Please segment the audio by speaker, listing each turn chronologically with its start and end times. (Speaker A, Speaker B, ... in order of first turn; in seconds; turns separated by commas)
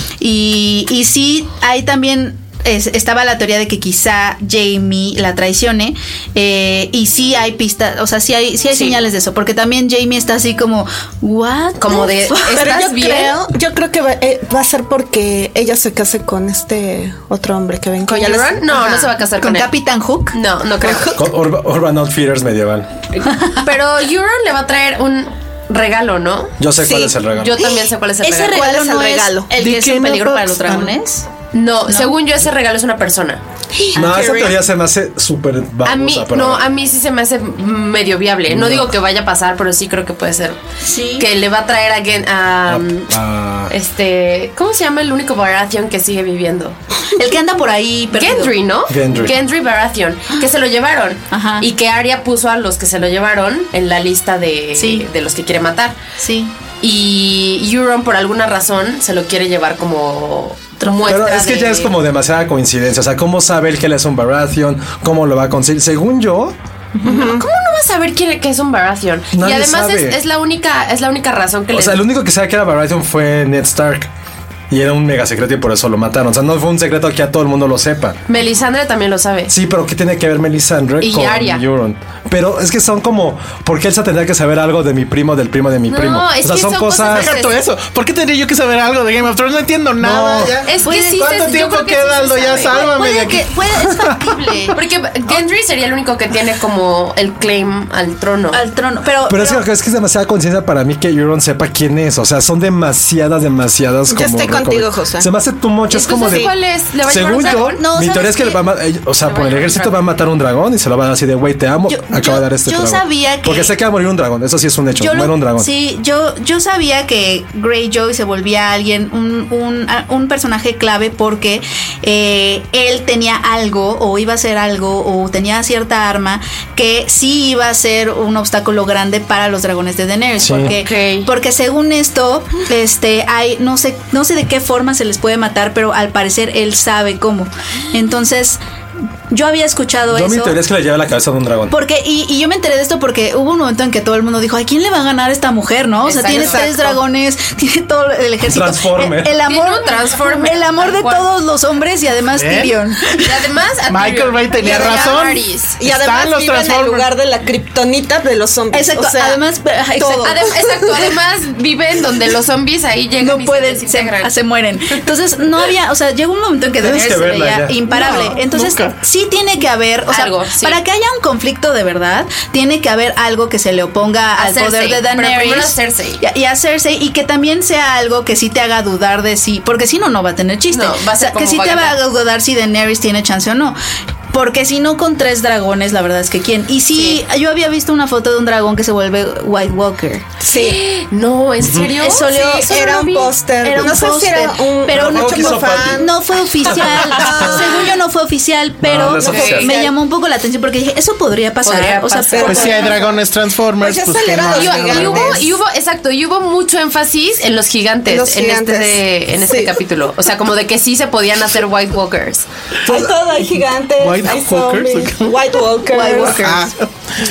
Speaker A: 0.2-12.6, Speaker B: 8.7-9.0, Speaker B: 11.8-13.4, Speaker C: 12.5-19.1, Speaker B: 18.1-19.7, Speaker A: 19.2-20.4, Speaker B: 20.3-21.2, Speaker C: 20.8-21.2, Speaker D: 21.2-22.9, Speaker B: 23.1-26.6, Speaker D: 26.6-27.6, Speaker C: 26.8-27.9, Speaker B: 27.3-28.6, Speaker A: 28.2-31.3, Speaker C: 28.5-29.5, Speaker E: 29.6-31.0, Speaker B: 31.5-33.4, Speaker C: 33.8-34.6, Speaker D: 34.0-36.7, Speaker B: 35.9-40.6, Speaker D: 38.5-38.9, Speaker A: 40.8-41.3, Speaker B: 41.2-43.2, Speaker D: 42.7-43.7, Speaker B: 43.7-46.8, Speaker A: 47.2-48.5, Speaker B: 48.1-56.0, Speaker D: 48.9-49.4, Speaker A: 51.3-51.7, Speaker A: 54.8-55.1, Speaker A: 56.2-56.5, Speaker B: 56.8-61.9, Speaker A: 60.8-61.2, Speaker D: 61.1-66.5, Speaker C: 67.0-67.4, Speaker B: 67.0-72.0, Speaker D: 69.3-70.2, Speaker D: 71.7-74.1, Speaker D: 74.7-78.2, Speaker B: 78.3-79.5, Speaker D: 79.5-87.3, Speaker B: 81.0-81.6, Speaker B: 85.9-87.6, Speaker E: 87.0-94.7, Speaker D: 90.0-90.6, Speaker B: 90.7-92.9, Speaker A: 90.8-92.0, Speaker A: 92.5-94.8, Speaker B: 94.7-98.6, Speaker A: 98.5-99.6, Speaker D: 99.3-115.7, Speaker C: 104.1-105.3, Speaker B: 105.9-107.8, Speaker C: 106.1-106.5, Speaker A: 107.4-108.6, Speaker B: 109.2-110.0, Speaker A: 111.9-113.7, Speaker A: 115.0-138.6, Speaker D: 130.4-130.7, Speaker B: 130.7-131.3, Speaker A: 139.3-140.6, Speaker D: 140.1-141.8, Speaker A: 141.7-153.3, Speaker B: 146.0-147.0, Speaker D: 148.5-149.4, Speaker B: 149.5-151.3, Speaker E: 152.3-152.8, Speaker B: 153.2-155.8, Speaker E: 153.9-157.1, Speaker C: 154.6-155.3, Speaker C: 155.8-159.4, Speaker A: 158.7-160.5, Speaker C: 160.0-161.1, Speaker B: 160.2-164.3, Speaker A: 163.2-183.8, Speaker D: 166.8-167.8, Speaker E: 167.9-169.0, Speaker B: 170.1-170.8, Speaker B: 174.4-176.2, Speaker B: 180.7-182.0, Speaker A: 184.3-190.2, Speaker C: 190.4-190.8, Speaker B: 190.5-193.4, Speaker D: 191.6-191.9, Speaker C: 191.9-196.1, Speaker A: 193.6-202.8, Speaker D: 194.9-196.1, Speaker C: 197.0-197.9, Speaker D: 198.8-199.8, Speaker C: 199.2-199.9, Speaker B: 199.2-199.7, Speaker B: 201.7-202.9, Speaker C: 202.3-203.2, Speaker E: 202.4-205.4, Speaker C: 203.8-205.6, Speaker B: 204.5-212.5, Speaker C: 208.1-209.8, Speaker C: 212.9-216.5, Speaker E: 212.9-213.2, Speaker E: 214.0-215.6, Speaker A: 215.9-216.7, Speaker E: 216.1-216.9